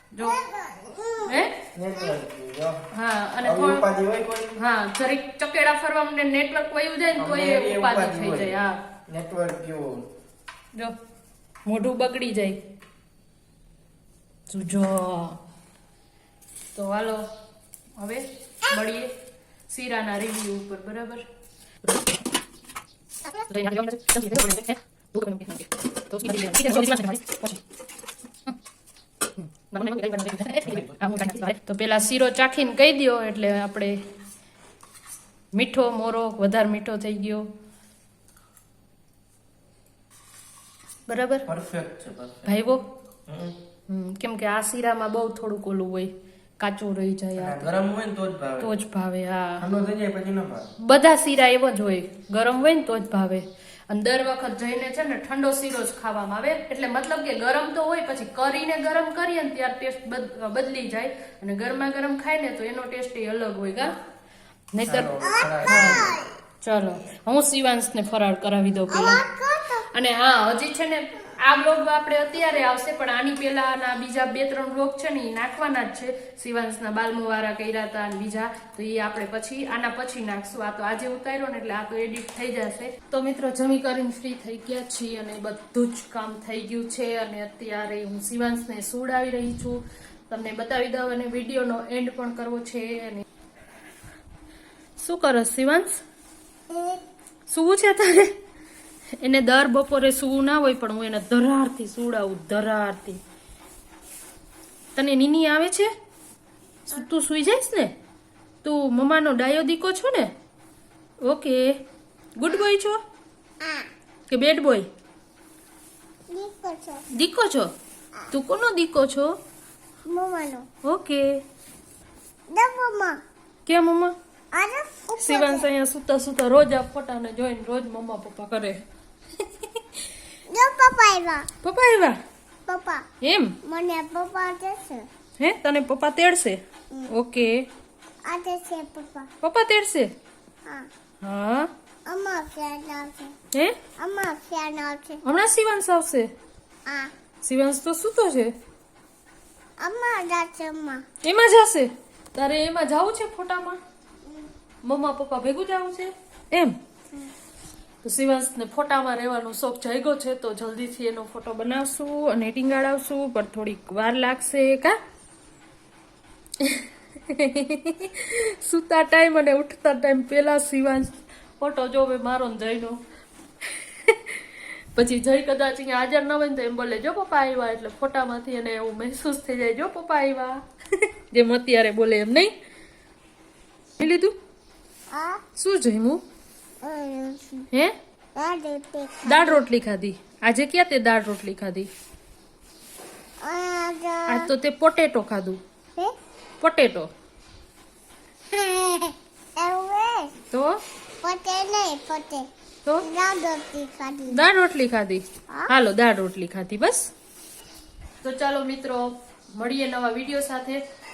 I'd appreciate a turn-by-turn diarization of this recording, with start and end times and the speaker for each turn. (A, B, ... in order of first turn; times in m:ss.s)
0:00.1-0:00.4 A
0:00.2-0:01.3 B
0:01.2-0:01.5 A
0:01.7-0:02.8 C
0:02.9-0:03.8 A
0:03.4-0:04.6 C
0:04.6-0:08.8 A
0:07.2-0:10.1 C
0:11.6-0:12.6 A
0:14.5-0:15.4 A
0:16.7-0:17.3 A
0:18.0-0:19.1 A
0:19.7-0:21.2 A
0:23.4-0:27.6 A
0:29.4-0:34.0 A
0:35.5-0:37.5 A
0:41.1-0:41.5 A
0:41.5-0:42.5 C
0:42.4-0:42.8 A
0:43.3-0:43.5 C
0:43.9-0:47.7 A
0:47.4-0:48.7 C
0:48.6-0:49.6 A
0:49.6-0:50.7 C
0:50.8-1:03.9 A
1:04.7-1:09.2 A
1:04.8-1:06.2 C
1:05.2-1:06.2 B
1:08.9-1:09.9 B
1:09.9-1:33.2 A
1:35.0-1:36.0 A
1:36.7-1:37.0 B
1:37.5-1:38.3 A
1:39.2-1:43.2 A
1:44.9-1:45.9 A
1:46.9-1:47.9 A
1:48.6-1:50.3 A
1:51.2-1:51.8 A
1:52.4-1:53.0 A
1:53.6-1:53.9 B
1:54.3-1:54.9 A
1:56.3-1:57.0 B
1:57.1-1:57.7 A
1:58.3-1:59.3 A
2:00.1-2:00.6 B
2:00.8-2:01.4 A
2:02.5-2:03.2 B
2:03.6-2:04.1 A
2:04.5-2:05.6 B
2:05.2-2:08.8 A
2:10.5-2:11.5 B
2:11.6-2:12.2 A
2:12.6-2:13.0 B
2:13.2-2:13.6 A
2:13.6-2:15.1 B
2:15.4-2:17.7 A
2:18.2-2:19.3 B
2:19.4-2:20.1 A
2:21.2-2:21.7 A
2:22.0-2:23.3 B
2:24.0-2:25.2 B
2:25.2-2:26.3 A
2:26.8-2:27.1 B
2:27.4-2:28.5 A
2:29.8-2:31.0 B
2:31.2-2:33.8 A
2:34.2-2:34.5 B
2:34.8-2:36.8 A
2:38.0-2:45.0 A
2:46.6-2:53.0 A
2:53.7-3:00.6 A
3:01.3-3:02.5 A
3:04.0-3:04.3 A
3:05.1-3:05.4 B
3:05.6-3:06.2 A
3:06.8-3:07.6 B
3:08.4-3:09.6 B
3:09.2-3:11.9 A
3:13.4-3:14.4 B
3:14.3-3:15.6 A
3:16.6-3:17.1 A
3:18.5-3:20.3 B
3:20.5-3:20.8 A
3:21.2-3:22.5 B
3:23.0-3:24.4 B
3:24.3-3:27.1 A
3:28.2-3:30.8 A